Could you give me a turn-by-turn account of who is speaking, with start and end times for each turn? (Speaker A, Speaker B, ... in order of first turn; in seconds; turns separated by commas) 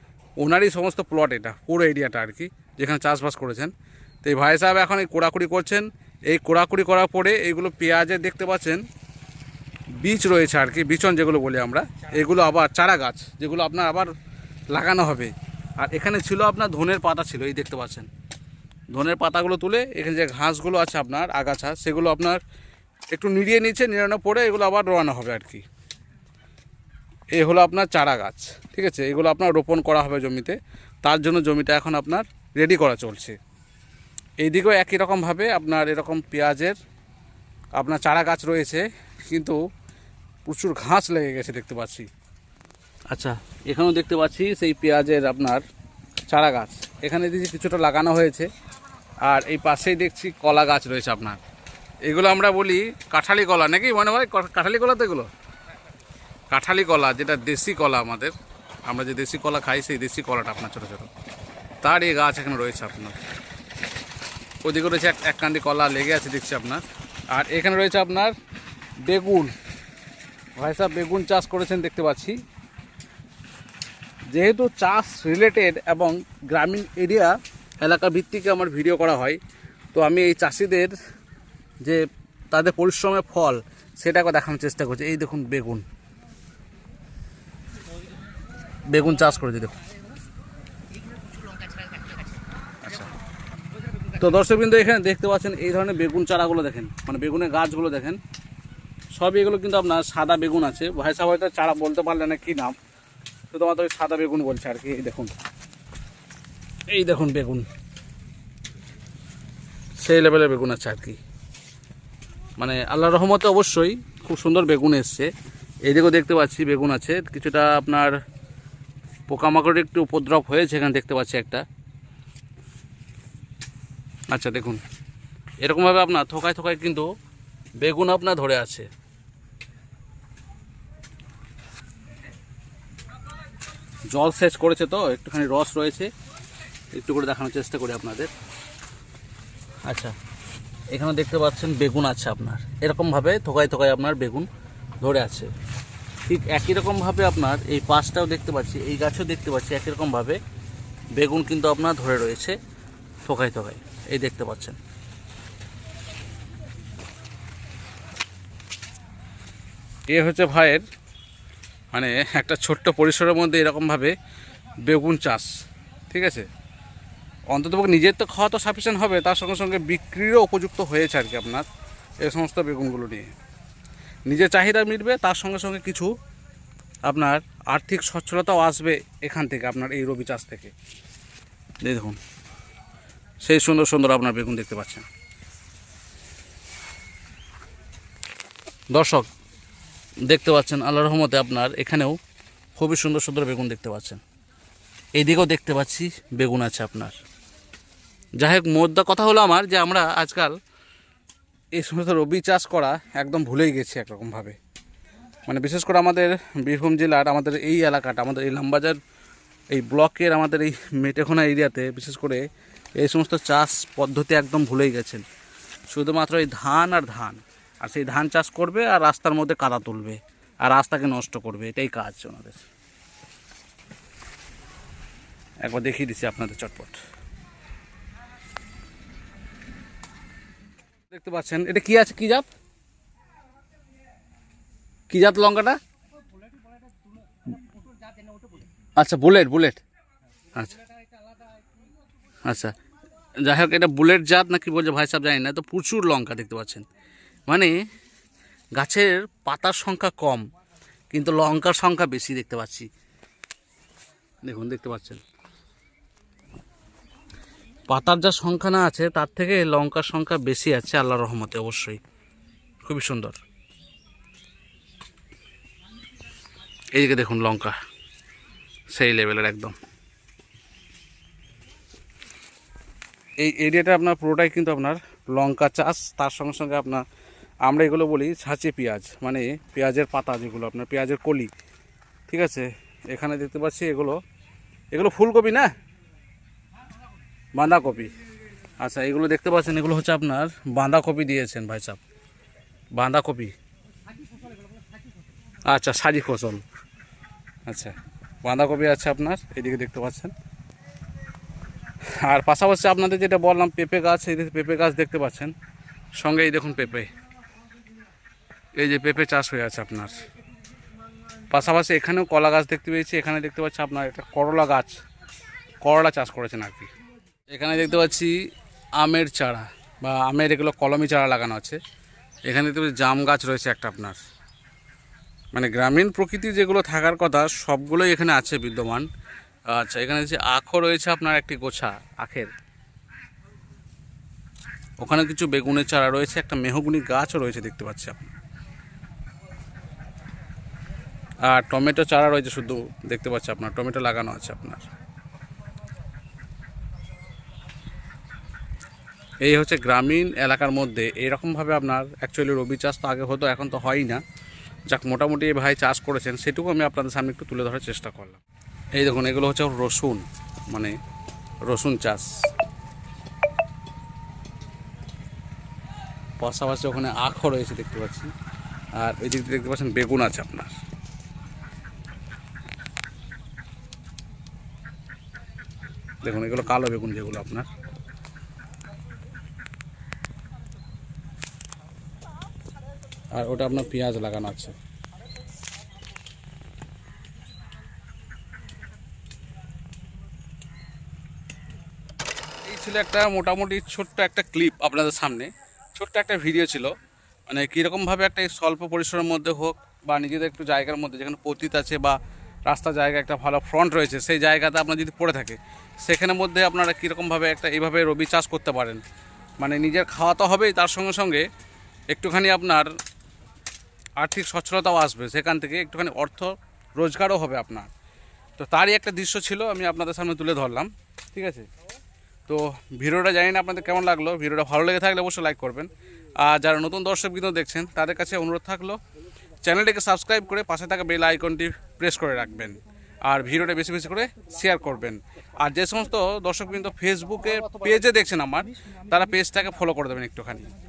Speaker A: 0.4-3.7, Speaker A: 4.2-8.8, Speaker A: 10.0-14.1, Speaker A: 14.7-18.1, Speaker A: 18.9-22.4, Speaker A: 23.1-25.6, Speaker A: 27.3-33.4, Speaker A: 34.4-36.8, Speaker A: 37.8-39.6, Speaker A: 40.5-42.1, Speaker A: 43.1-45.6, Speaker A: 46.3-48.5, Speaker A: 49.2-51.4, Speaker A: 52.0-55.3, Speaker A: 56.5-58.3, Speaker A: 58.9-61.1, Speaker A: 61.8-63.2, Speaker A: 64.6-68.3, Speaker A: 69.0-69.5, Speaker A: 70.6-72.4, Speaker A: 74.3-79.4, Speaker A: 79.9-80.9, Speaker A: 81.8-85.8, Speaker A: 88.9-89.7, Speaker A: 92.8-93.1, Speaker A: 94.2-98.2, Speaker A: 99.1-102.8, Speaker A: 103.5-105.3, Speaker A: 106.9-107.7, Speaker A: 110.0-111.2, Speaker A: 112.6-115.3, Speaker A: 115.8-118.1, Speaker A: 119.3-121.6, Speaker A: 124.3-124.8, Speaker A: 125.6-127.1, Speaker A: 127.8-128.9, Speaker A: 134.1-136.1, Speaker A: 136.9-138.3, Speaker A: 139.8-140.1, Speaker A: 140.9-144.5, Speaker A: 145.0-145.5, Speaker A: 146.3-150.4, Speaker A: 151.2-152.6, Speaker A: 153.2-154.8, Speaker A: 160.1-160.8, Speaker A: 161.9-164.1, Speaker A: 164.8-165.5, Speaker A: 166.1-166.5, Speaker A: 167.5-171.7, Speaker A: 172.2-173.3, Speaker A: 174.3-176.1, Speaker A: 177.1-180.7, Speaker A: 181.8-182.2, Speaker A: 183.4-185.0, Speaker A: 188.9-189.3, Speaker A: 190.2-192.2, Speaker A: 192.8-194.2, Speaker A: 195.1-197.2, Speaker A: 198.4-200.6, Speaker A: 201.8-204.6, Speaker A: 205.5-209.0, Speaker A: 209.7-212.4, Speaker A: 213.0-215.2, Speaker A: 215.9-222.7, Speaker A: 225.6-227.0, Speaker A: 231.1-232.5, Speaker A: 235.1-235.8, Speaker A: 239.0-239.8, Speaker A: 240.5-240.8, Speaker A: 242.4-242.7, Speaker A: 243.4-246.8, Speaker A: 247.5-247.7, Speaker A: 248.8-250.5, Speaker A: 251.1-252.9, Speaker A: 254.4-255.2, Speaker A: 257.9-262.0, Speaker A: 262.8-263.4, Speaker A: 266.9-267.8, Speaker A: 268.9-269.8, Speaker A: 273.4-277.0, Speaker A: 277.6-281.5, Speaker A: 282.3-284.2, Speaker A: 284.9-285.7, Speaker A: 287.5-288.1, Speaker A: 288.8-292.0, Speaker A: 292.9-293.5, Speaker A: 295.6-296.6, Speaker A: 297.6-300.3, Speaker A: 302.1-305.5, Speaker A: 306.2-307.1, Speaker A: 308.7-310.2, Speaker A: 311.5-315.0, Speaker A: 315.8-316.9, Speaker A: 317.5-318.4, Speaker A: 319.0-321.8, Speaker A: 322.5-324.2, Speaker A: 325.5-329.1, Speaker A: 329.7-332.5, Speaker A: 335.0-338.3, Speaker A: 341.4-344.8, Speaker A: 349.4-354.2, Speaker A: 354.9-358.4, Speaker A: 358.9-360.9, Speaker A: 361.6-362.5, Speaker A: 366.4-368.3, Speaker A: 368.9-370.8, Speaker A: 376.2-377.7, Speaker A: 383.3-384.7, Speaker A: 392.6-396.9, Speaker A: 397.5-409.0, Speaker A: 409.6-411.5, Speaker A: 412.1-412.9, Speaker A: 414.2-417.9, Speaker A: 418.6-421.7, Speaker A: 422.5-429.0, Speaker A: 429.6-440.7